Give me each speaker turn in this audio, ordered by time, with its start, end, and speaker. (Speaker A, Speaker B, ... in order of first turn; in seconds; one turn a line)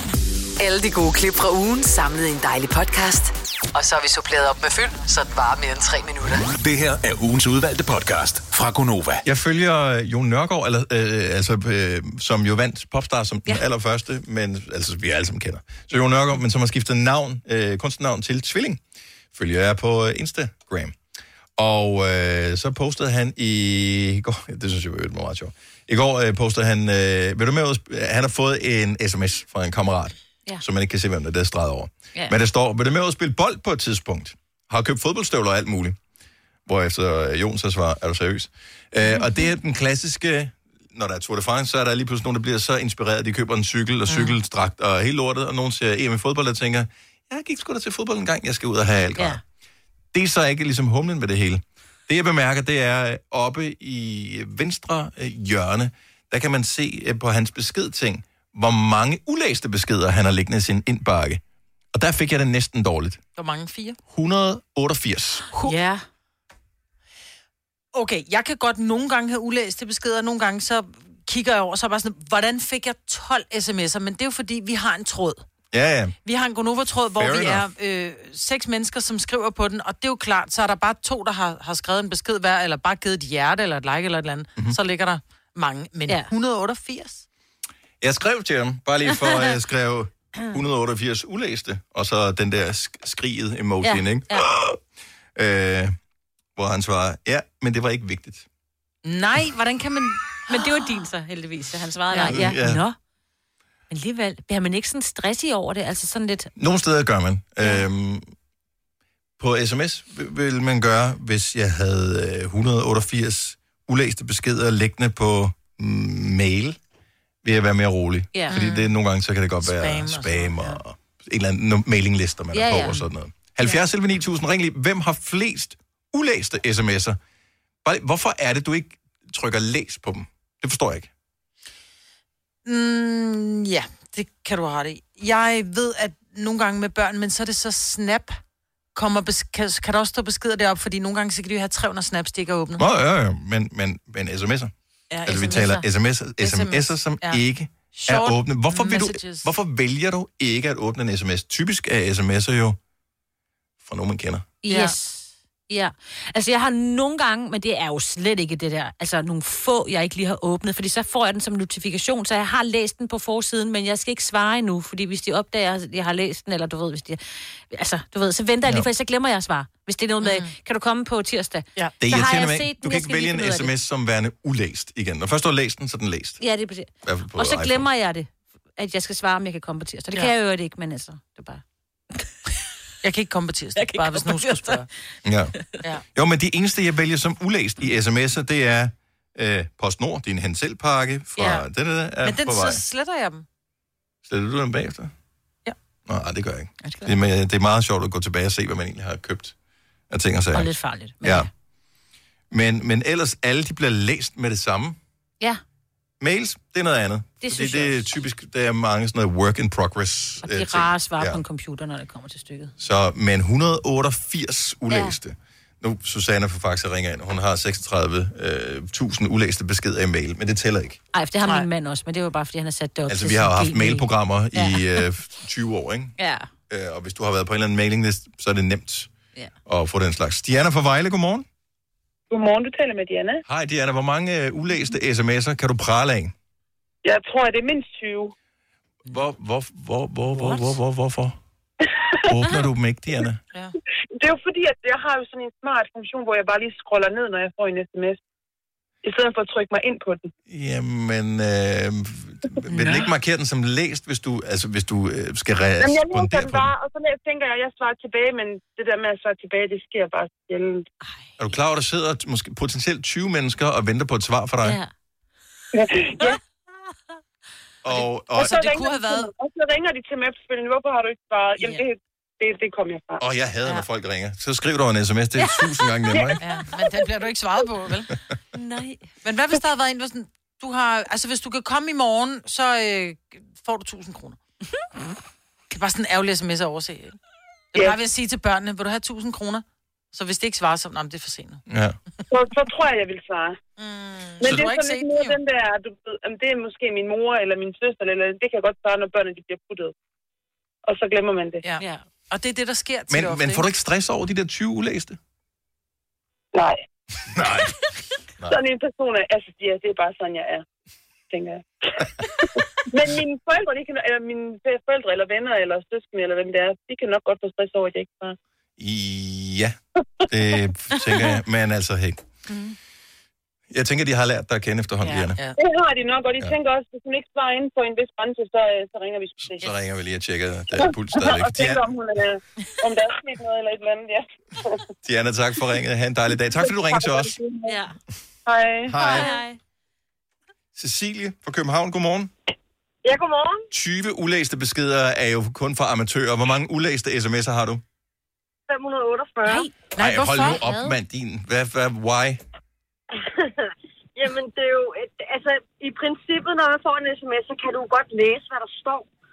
Speaker A: 0.6-6.5
Speaker B: 6.6-9.2
Speaker C: 9.2-18.8
Speaker C: 19.3-20.9
Speaker C: 21.6-36.0
Speaker C: 36.6-49.4
Speaker C: 50.1-61.4
Speaker C: 61.9-63.2
Speaker D: 63.4-64.0
Speaker C: 64.1-65.5
Speaker E: 65.6-66.0
Speaker D: 67.9-75.4
Speaker C: 75.7-76.1
Speaker D: 76.2-87.2
Speaker C: 77.2-77.6
Speaker C: 88.0-94.8
Speaker E: 93.8-94.5
Speaker C: 95.3-95.9
Speaker C: 96.5-98.5
Speaker D: 99.0-100.6
Speaker E: 100.5-103.0
Speaker D: 102.1-102.5
Speaker C: 102.2-102.8
Speaker E: 103.9-106.5
Speaker C: 106.5-108.3
Speaker C: 109.4-116.8
Speaker C: 117.4-127.2
Speaker E: 118.3-118.6
Speaker D: 118.5-118.9
Speaker D: 119.6-120.8
Speaker E: 122.5-123.0
Speaker C: 127.8-131.1
Speaker D: 132.6-138.4
Speaker D: 138.9-142.8
Speaker C: 142.8-144.7
Speaker D: 145.1-145.8
Speaker C: 145.2-152.8
Speaker E: 145.3-145.8
Speaker D: 146.4-149.5
Speaker C: 153.8-154.5
Speaker E: 154.6-173.7
Speaker D: 154.7-154.9
Speaker D: 170.2-170.5
Speaker C: 172.0-176.4
Speaker E: 176.4-181.6
Speaker C: 177.0-177.9
Speaker D: 183.0-184.8
Speaker E: 183.8-184.8
Speaker C: 185.2-185.5
Speaker C: 186.1-192.8
Speaker D: 192.2-193.4
Speaker C: 194.2-195.1
Speaker C: 196.1-199.5
Speaker E: 196.8-197.1
Speaker C: 200.1-200.7
Speaker E: 200.5-201.5
Speaker C: 201.2-201.5
Speaker C: 202.5-205.0
Speaker C: 206.2-211.4
Speaker E: 207.4-208.2
Speaker E: 210.4-212.7
Speaker C: 212.8-221.0
Speaker E: 214.9-215.2
Speaker E: 221.1-225.0
Speaker C: 223.1-226.1
Speaker E: 226.2-226.5
Speaker C: 226.7-229.1
Speaker C: 229.7-231.4
Speaker F: 232.3-233.4
Speaker C: 233.4-236.3
Speaker F: 237.0-238.3
Speaker C: 239.1-241.4
Speaker C: 242.3-243.4
Speaker F: 244.2-248.2
Speaker F: 249.0-250.3
Speaker C: 250.5-256.7
Speaker F: 255.8-260.8
Speaker E: 261.1-261.4
Speaker C: 261.4-264.8
Speaker E: 264.6-264.9
Speaker F: 265.7-266.4
Speaker C: 267.8-268.6
Speaker D: 267.9-269.3
Speaker F: 268.3-273.2
Speaker D: 271.6-271.8
Speaker C: 273.2-276.4
Speaker E: 275.4-275.9
Speaker D: 276.4-278.1
Speaker E: 278.5-279.1
Speaker D: 279.2-284.4
Speaker D: 285.7-287.2
Speaker D: 287.7-291.6
Speaker C: 291.7-292.0
Speaker F: 292.3-293.6
Speaker D: 293.8-295.4
Speaker F: 294.4-299.9
Speaker F: 300.8-301.6
Speaker D: 301.6-303.7
Speaker C: 303.1-305.2
Speaker F: 306.5-306.8
Speaker C: 307.3-307.7
Speaker F: 308.4-310.6
Speaker F: 311.3-311.6
Speaker F: 312.9-318.4
Speaker C: 318.8-319.8
Speaker C: 320.3-322.2
Speaker C: 323.7-325.4
Speaker D: 325.0-325.6
Speaker F: 325.6-329.6
Speaker C: 329.4-331.9
Speaker F: 330.8-334.7
Speaker C: 335.0-337.3
Speaker F: 336.6-337.8
Speaker E: 337.6-337.9
Speaker F: 338.4-339.1
Speaker C: 338.9-339.3
Speaker E: 339.0-339.6
Speaker C: 340.7-342.3
Speaker G: 343.0-343.6
Speaker C: 343.7-347.8
Speaker G: 348.7-349.7
Speaker E: 349.4-349.7
Speaker D: 349.9-350.6
Speaker C: 350.0-352.4
Speaker E: 350.4-350.9
Speaker G: 353.2-353.5
Speaker G: 354.2-359.1